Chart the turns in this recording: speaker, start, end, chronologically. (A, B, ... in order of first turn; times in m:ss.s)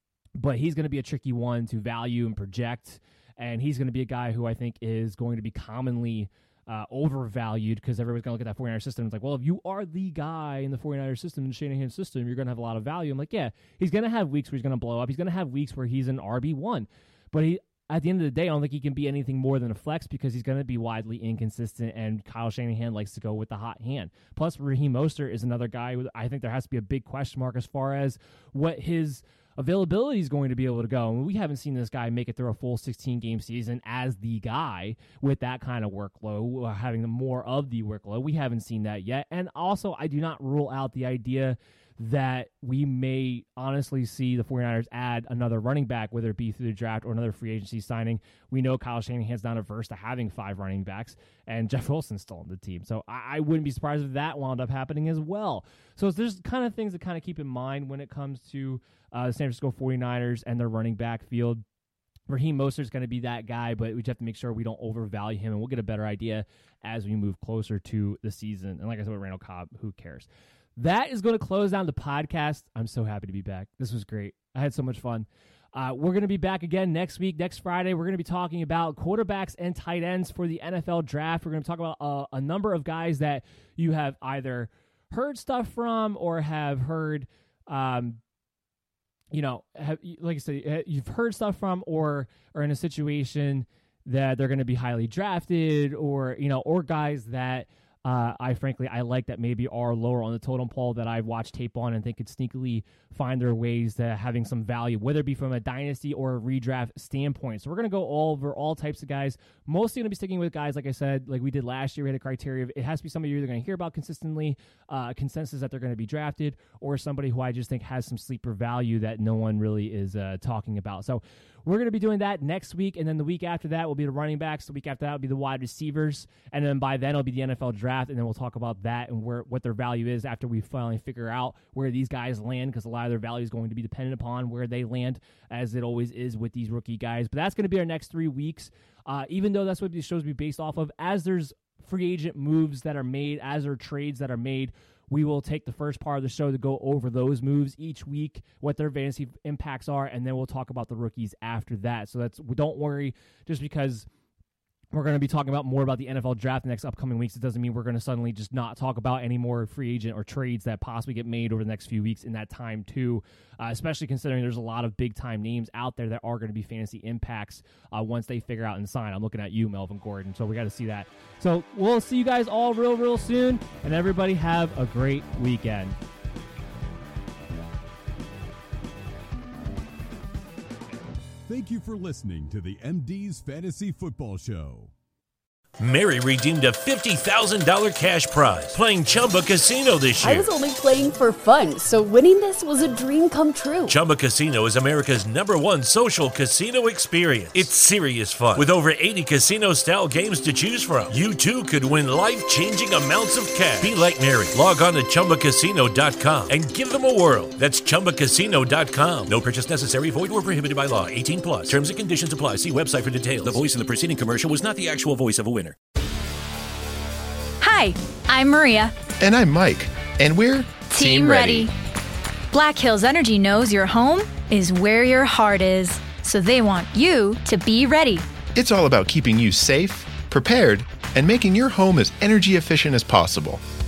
0:00.4-1:01.6 A
1:02.3-1:28.2 A
1:29.3-2:34.1 A
2:34.9-2:56.0 A
3:01.5-3:04.9 B
3:05.8-3:10.5 C
3:10.2-3:13.9 D
3:13.9-3:35.7 C
3:37.6-3:39.0 E
3:39.2-3:41.7 F
3:40.9-3:41.7 E
3:42.5-3:48.3 E
3:48.6-3:53.6 F